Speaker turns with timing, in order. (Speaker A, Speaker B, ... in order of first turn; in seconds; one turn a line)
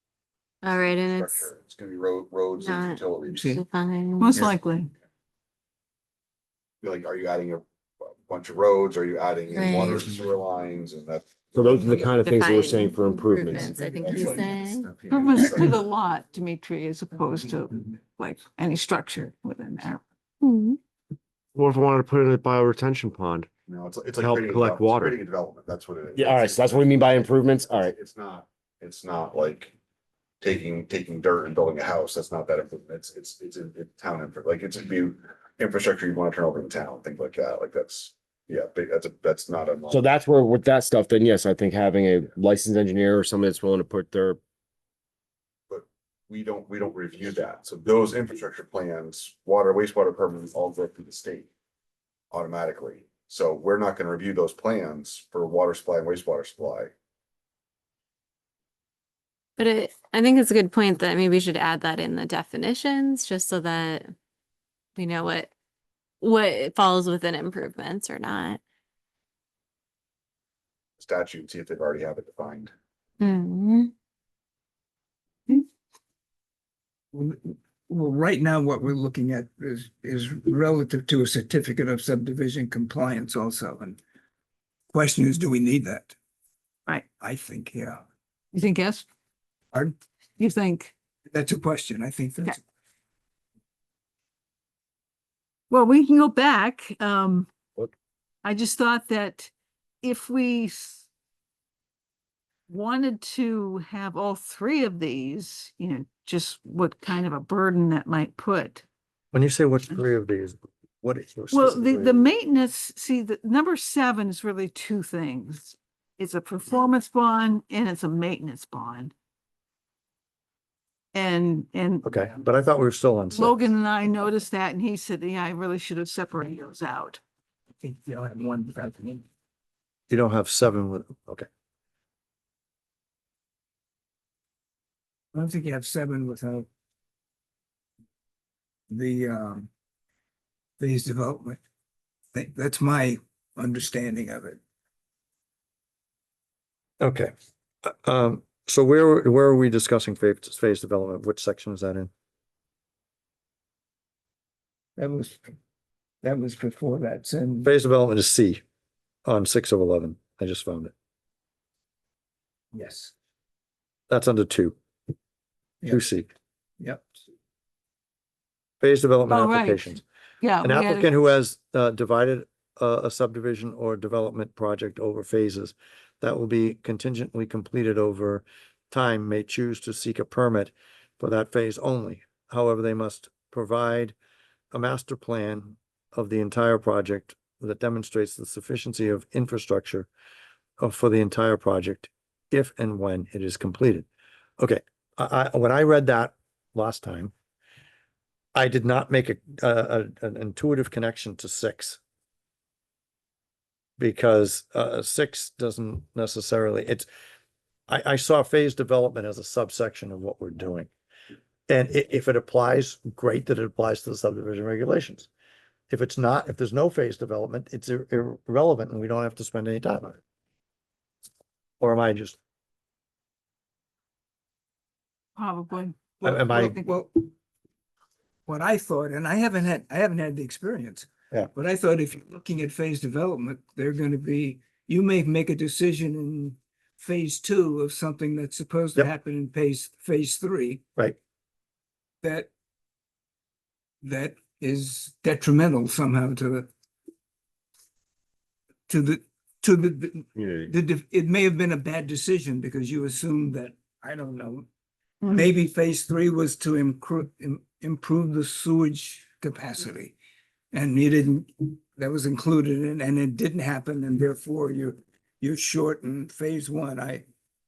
Speaker A: 0.6-1.5
Speaker B: 0.7-3.4
Speaker A: 2.6-4.5
Speaker C: 3.3-3.6
Speaker D: 4.2-4.9
Speaker B: 6.8-11.9
Speaker A: 9.5-10.1
Speaker E: 11.6-13.8
Speaker A: 11.9-15.0
Speaker C: 13.5-15.1
Speaker B: 13.9-15.8
Speaker D: 15.1-20.0
Speaker A: 20.4-20.8
Speaker E: 21.5-23.5
Speaker B: 23.7-29.7
Speaker E: 24.1-25.2
Speaker E: 26.1-27.9
Speaker B: 30.4-40.0
Speaker E: 39.9-44.4
Speaker B: 45.7-51.5
Speaker B: 52.3-56.9
Speaker A: 59.6-64.1
Speaker A: 65.0-65.5
Speaker A: 66.2-68.6
Speaker B: 71.0-72.7
Speaker A: 73.2-73.9
Speaker C: 77.1-84.0
Speaker C: 84.9-86.1
Speaker C: 87.2-88.0
Speaker D: 88.5-89.1
Speaker D: 90.4-90.9
Speaker C: 91.3-92.6
Speaker D: 95.7-97.5
Speaker D: 98.4-101.0
Speaker D: 102.7-108.8
Speaker F: 109.3-112.2
Speaker D: 111.5-119.1
Speaker D: 121.1-122.2
Speaker F: 122.0-123.6
Speaker D: 123.3-127.2
Speaker C: 127.8-129.2
Speaker F: 130.1-131.5
Speaker C: 135.3-136.7
Speaker C: 138.9-139.7
Speaker C: 140.8-141.6
Speaker C: 142.3-144.6
Speaker F: 147.0-147.3
Speaker F: 147.8-152.1
Speaker C: 155.0-155.5
Speaker C: 156.2-157.7
Speaker F: 157.6-158.6
Speaker F: 159.2-160.9
Speaker C: 162.7-163.1
Speaker F: 164.1-164.8
Speaker F: 165.9-166.3
Speaker C: 166.8-167.1
Speaker F: 168.8-170.0
Speaker D: 169.3-171.1
Speaker F: 170.6-184.1
Speaker F: 184.7-190.1
Speaker F: 190.8-194.1
Speaker F: 194.6-197.3
Speaker F: 198.5-202.0
Speaker F: 204.0-207.1
Speaker F: 207.9-210.9
Speaker F: 211.7-215.3
Speaker F: 215.9-220.2
Speaker F: 221.8-222.4
Speaker D: 225.3-226.9
Speaker C: 226.2-227.3
Speaker F: 226.2-226.8
Speaker C: 228.4-240.8
Speaker C: 242.2-242.5
Speaker C: 244.0-246.7
Speaker C: 248.9-254.7
Speaker E: 250.3-250.7
Speaker D: 255.2-255.5
Speaker C: 255.3-260.1
Speaker C: 260.7-267.2